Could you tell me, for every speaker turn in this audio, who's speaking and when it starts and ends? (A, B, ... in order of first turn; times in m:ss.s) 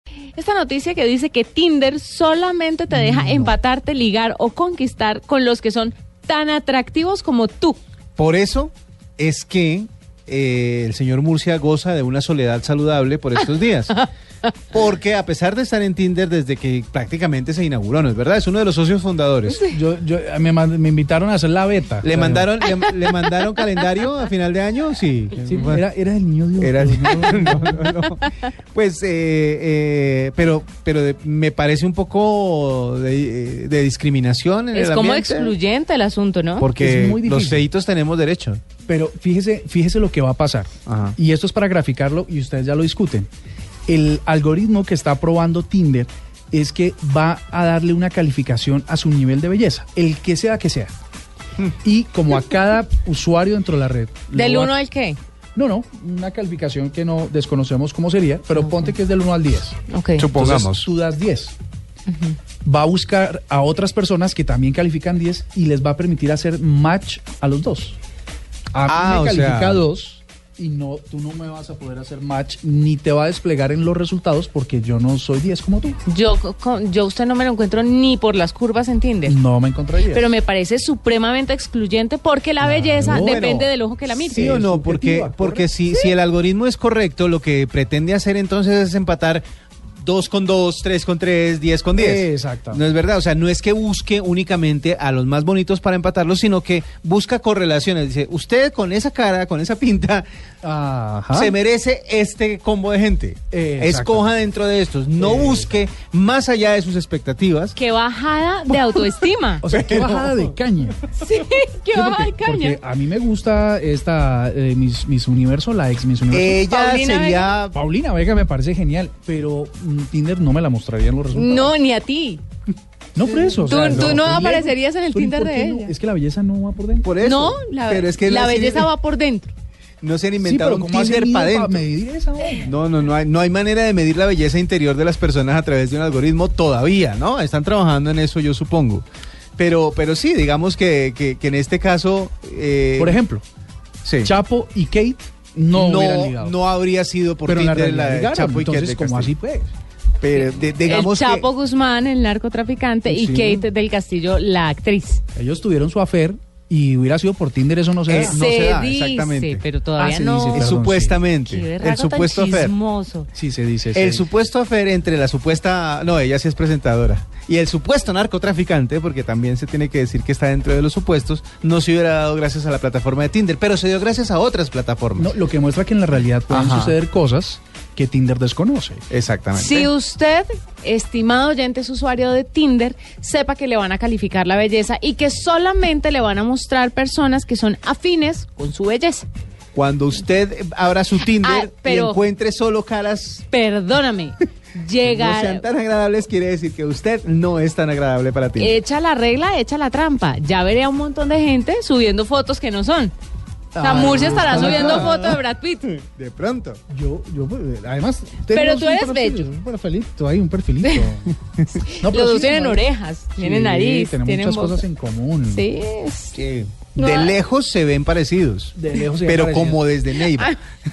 0:00.3-0:07.8 A
0:02.9-0:03.5 B
0:08.2-0:14.0 C
0:14.7-0:19.6 C
0:19.4-0:22.6 B
0:22.0-0:25.8 C
0:25.4-0:27.9 B
0:26.6-0:35.5 C
0:34.7-0:36.7 A
0:36.6-0:38.6 C
0:36.7-0:37.7 B
0:38.8-0:43.3 B
0:40.8-0:41.1 C
0:43.9-0:50.9 B
0:51.8-0:54.9 B
0:54.4-0:55.2 A
0:55.5-0:59.8 B
0:59.9-1:00.2 A
1:00.2-1:00.9 C
1:00.3-1:01.5 B
1:02.1-1:02.4 A
1:02.6-1:08.0 B
1:08.7-1:16.0 B
1:08.8-1:09.8 C
1:16.1-1:19.4 A
1:19.2-1:20.4 B
1:20.1-1:24.4 A
1:22.6-1:23.7 B
1:23.0-1:29.4 C
1:24.3-1:25.9 B
1:30.0-1:40.3 C
1:31.9-1:32.8 B
1:40.6-1:41.5 B
1:41.3-1:47.8 C
1:43.5-1:44.3 B
1:45.2-1:45.7 B
1:47.8-1:49.6 A
1:49.6-1:51.1 B
1:49.7-1:50.4 C
1:51.1-1:52.8 A
1:51.9-1:56.7 B
1:56.3-1:57.8 C
1:56.7-1:57.5 A
1:57.7-2:01.8 B
2:01.4-2:02.4 A
2:03.1-2:07.2 B
2:03.5-2:04.4 C
2:03.7-2:05.9 A
2:07.0-2:08.9 C
2:07.2-2:09.5 A
2:10.0-2:11.8 C
2:10.4-2:12.8 B
2:12.6-2:19.0 C
2:19.6-2:23.2 C
2:23.0-2:23.4 B
2:24.0-2:24.3 C
2:24.2-2:26.6 B
2:25.7-2:29.3 C
2:27.5-2:29.7 B
2:30.2-2:31.4 C
2:30.8-2:35.2 A
2:33.0-2:33.6 C
2:35.3-2:38.5 B
2:38.1-2:39.6 C
2:38.3-2:40.6 A
2:40.0-2:41.4 B
2:40.5-2:42.7 C
2:41.4-2:43.3 A
2:43.3-2:44.2 B
2:43.9-2:55.3 C
2:55.2-2:59.0 B
2:56.5-2:56.9 C
2:59.1-2:59.9 C
2:59.5-3:09.3 A
3:09.7-3:13.4 C
3:11.3-3:12.2 A
3:13.5-3:15.7 A
3:15.0-3:18.8 C
3:18.6-3:23.1 A
3:23.7-3:25.4 B
3:23.8-3:26.8 C
3:23.8-3:25.9 A
3:26.9-3:35.7 B
3:28.6-3:29.4 A
3:32.1-3:34.7 A
3:35.5-3:36.3 A
3:36.3-3:40.6 C
3:36.9-3:37.4 A
3:38.7-3:39.9 B